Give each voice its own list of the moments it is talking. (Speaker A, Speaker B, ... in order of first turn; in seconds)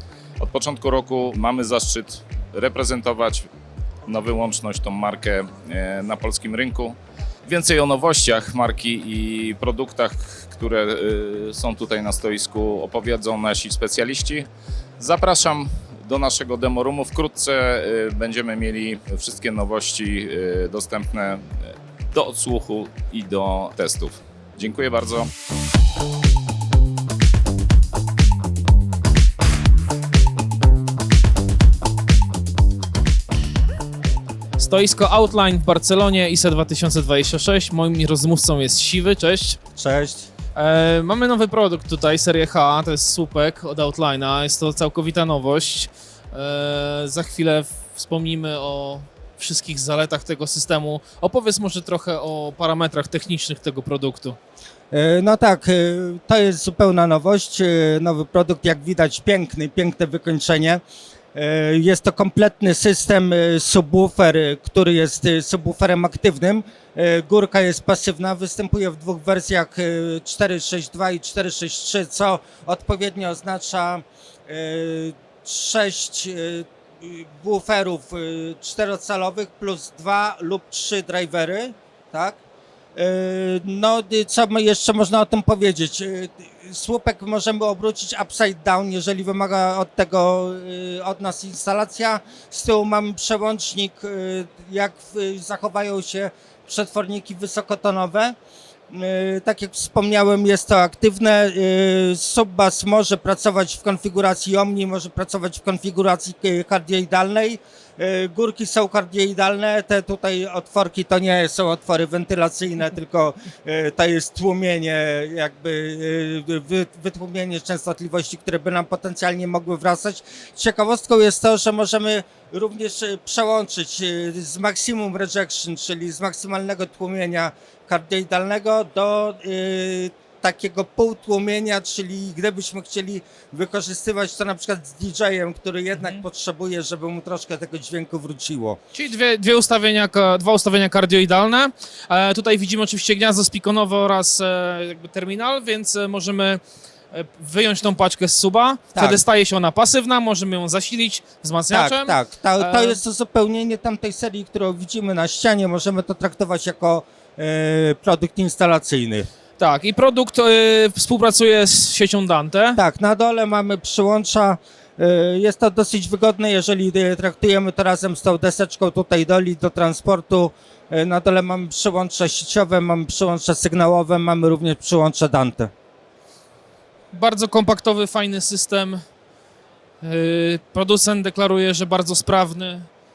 Speaker A: 0.4-3.4, 4.0-14.5, 15.0-25.3
Speaker B: 34.6-39.6, 40.5-54.4, 136.0-136.2, 138.9-146.6, 147.1-153.0, 159.6-162.8, 177.1-179.0, 180.0-182.9
Speaker C: 39.8-40.3, 54.9-60.8, 61.3-82.4, 82.9-98.3, 98.9-138.8, 148.9-149.2, 151.7-159.3, 162.8-175.7